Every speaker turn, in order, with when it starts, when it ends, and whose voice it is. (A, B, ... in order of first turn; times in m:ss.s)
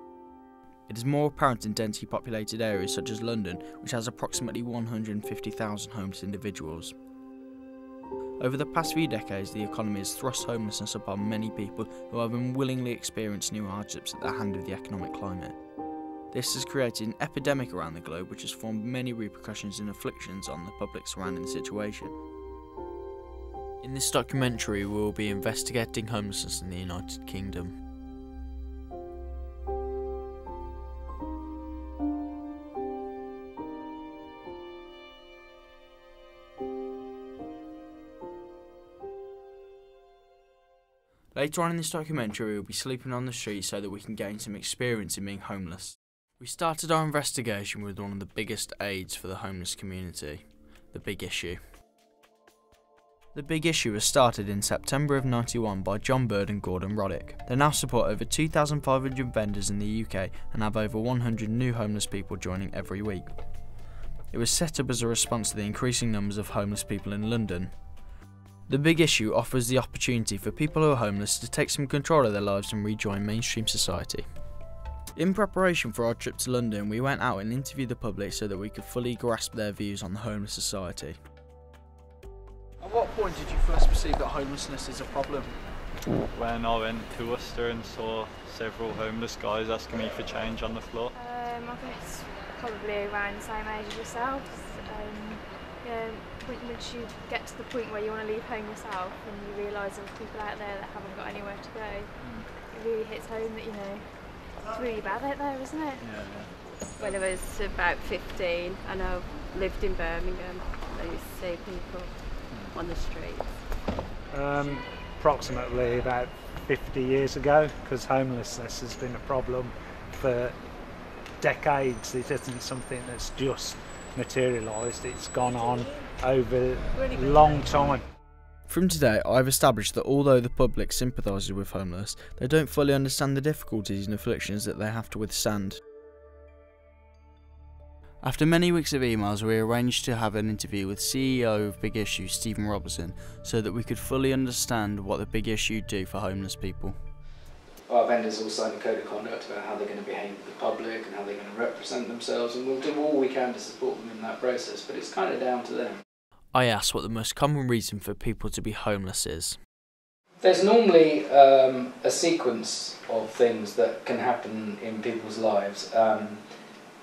0:00.9-0:07.0 A
0:08.4-0:15.6 A
0:16.3-0:22.2 A
0:23.8-0:27.8 A
0:41.3-0:51.6 A
0:53.3-1:03.3 A
1:04.3-1:07.8 A
1:08.7-1:14.3 A
1:15.2-1:21.2 A
1:22.8-1:25.6 A
1:26.3-1:31.1 B
1:31.1-1:46.1 C
1:42.2-1:42.5 A
1:46.0-1:46.5 A
1:47.0-1:53.6 D
1:52.5-1:52.8 A
1:54.3-2:00.6 E
2:01.4-2:08.1 E
2:07.0-2:08.0 D
2:08.7-2:15.8 A
2:18.2-2:27.0 A
2:27.9-2:36.0 F
2:36.5-2:39.6 A
2:40.4-2:46.7 F